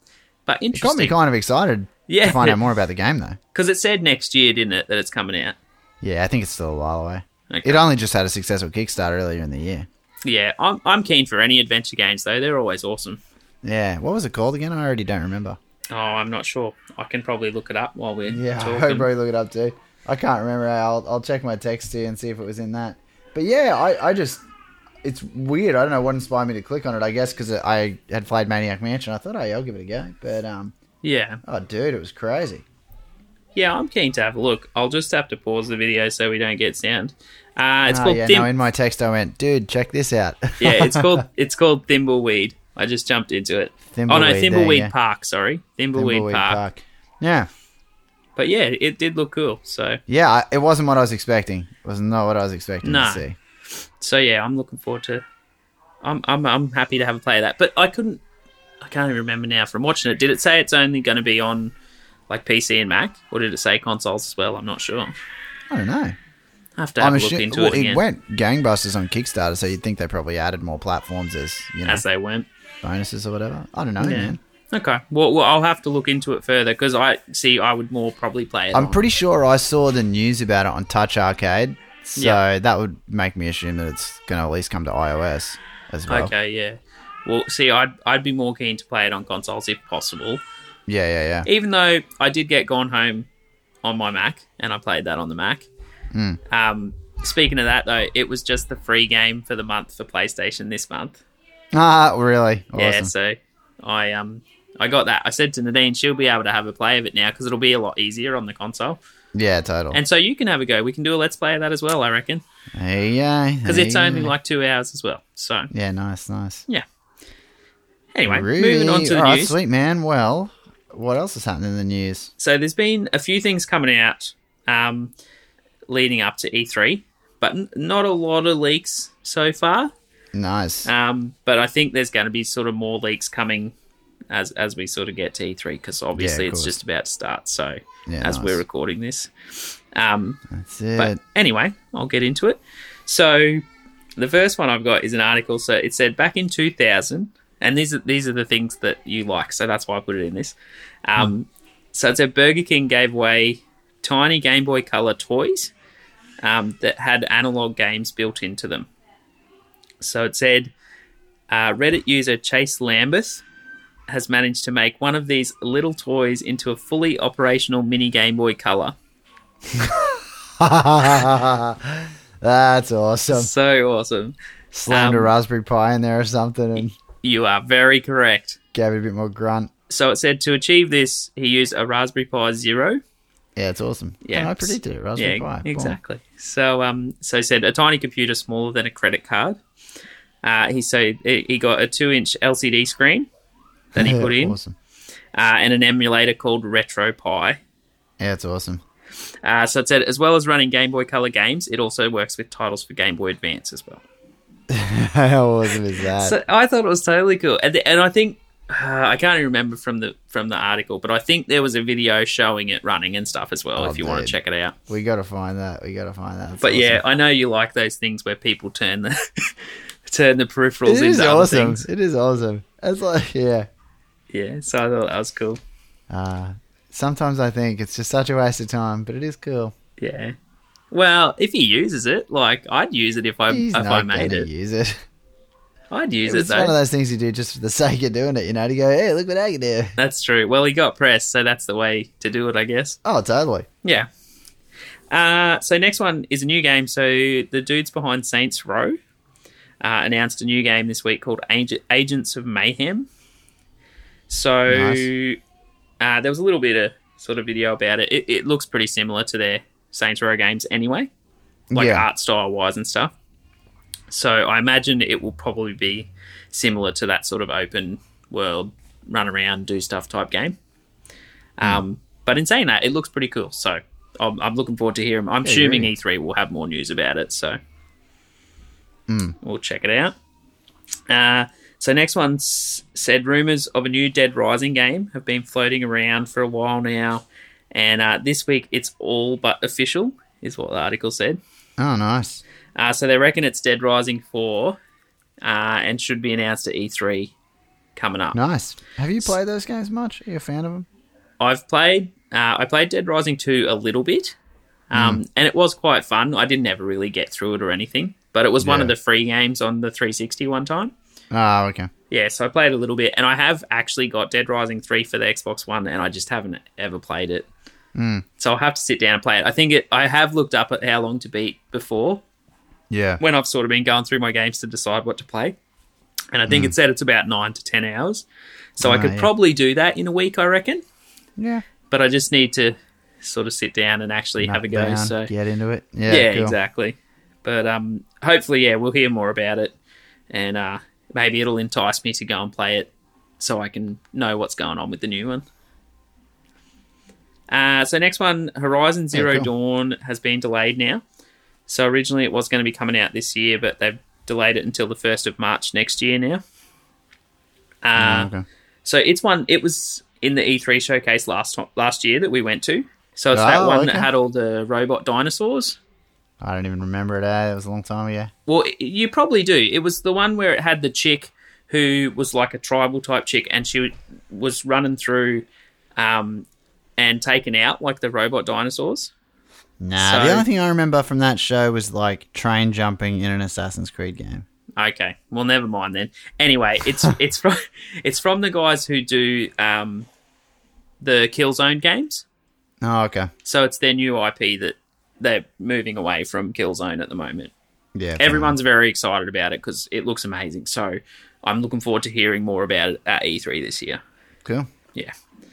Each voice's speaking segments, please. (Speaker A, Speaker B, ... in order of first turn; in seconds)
Speaker A: 0.5-1.1, 2.1-2.6, 3.5-5.6, 7.5-7.8, 10.2-13.2, 15.9-19.1, 31.0-31.4, 33.6-38.5, 40.6-46.6, 48.4-50.0, 52.8-53.2, 54.0-55.2, 56.0-58.2, 58.8-61.7, 62.3-65.1, 66.8-68.0, 71.9-72.5, 74.0-79.0, 86.1-90.4, 91.5-93.3, 93.8-95.7, 96.5-101.2, 102.8-109.0, 109.9-112.4, 113.7-115.7, 118.2-119.5, 122.4-125.1, 125.9-129.9, 130.8-133.7, 134.3-140.4, 141.0-143.6, 144.2-155.7, 156.4-158.9, 160.0-160.7, 161.5-163.4, 164.1-168.9, 173.3-174.3, 174.9-175.3, 177.2-178.6, 179.9-183.0, 184.2-189.6, 190.4-193.3, 193.9-194.6, 195.3-197.6, 199.4-204.0, 206.2-214.8, 216.6-219.5, 220.1-221.9, 224.3-225.6, 230.0-230.3, 230.9-234.5, 235.9-236.8, 240.0-243.0, 245.1-249.0, 249.8-253.1, 254.3-255.4, 256.0-261.1, 261.7-263.1, 264.1-270.6, 271.6-277.6, 279.4-280.1, 281.1-291.4, 292.8-294.8, 295.4-297.3, 298.0-298.4, 301.4-304.4, 304.9-310.9, 312.1-317.5, 318.4-322.2, 323.2-325.6, 326.3-328.2, 328.8-330.8, 331.9-335.3, 336.1-339.7, 340.3-345.4, 347.5-351.0, 351.7-356.4, 357.8-358.3, 358.9-365.8, 368.5-375.4, 376.0-376.5, 377.0-379.1, 380.0-380.5, 384.8-390.1, 391.0-392.2, 393.4-397.5, 398.2-404.0
Speaker B: 0.7-3.4, 6.0-9.9, 13.6-15.6, 18.3-24.4, 25.0-30.7, 31.5-32.6, 37.9-41.2, 43.9-44.9, 46.0-47.5, 50.1-53.4, 65.7-66.2, 67.0-72.0, 72.8-74.4, 78.7-86.3, 90.9-91.5, 96.1-96.4, 101.7-103.1, 109.3-110.0, 112.8-114.3, 115.7-116.7, 118.3-122.3, 130.3-130.9, 136.2-136.8, 138.1-138.6, 140.5-141.2, 169.7-173.5, 174.7-176.9, 178.7-179.7, 183.6-186.0, 194.0-194.8, 198.2-198.8, 204.7-206.4, 213.8-214.3, 214.9-217.0, 220.9-223.7, 226.1-229.7, 233.5-235.0, 236.3-239.9, 243.0-243.7, 254.7-255.1, 261.7-262.1, 275.4-275.9, 279.1-279.4, 291.8-292.4, 298.3-300.9, 304.9-305.2, 308.6-308.9, 311.3-311.9, 317.9-318.2, 322.9-323.2, 326.5-326.7, 328.8-329.3, 331.4-331.6, 334.4-336.6, 349.1-349.5, 358.0-358.4, 363.3-364.1, 366.4-368.3, 379.8-384.4, 392.8-393.3, 397.9-398.6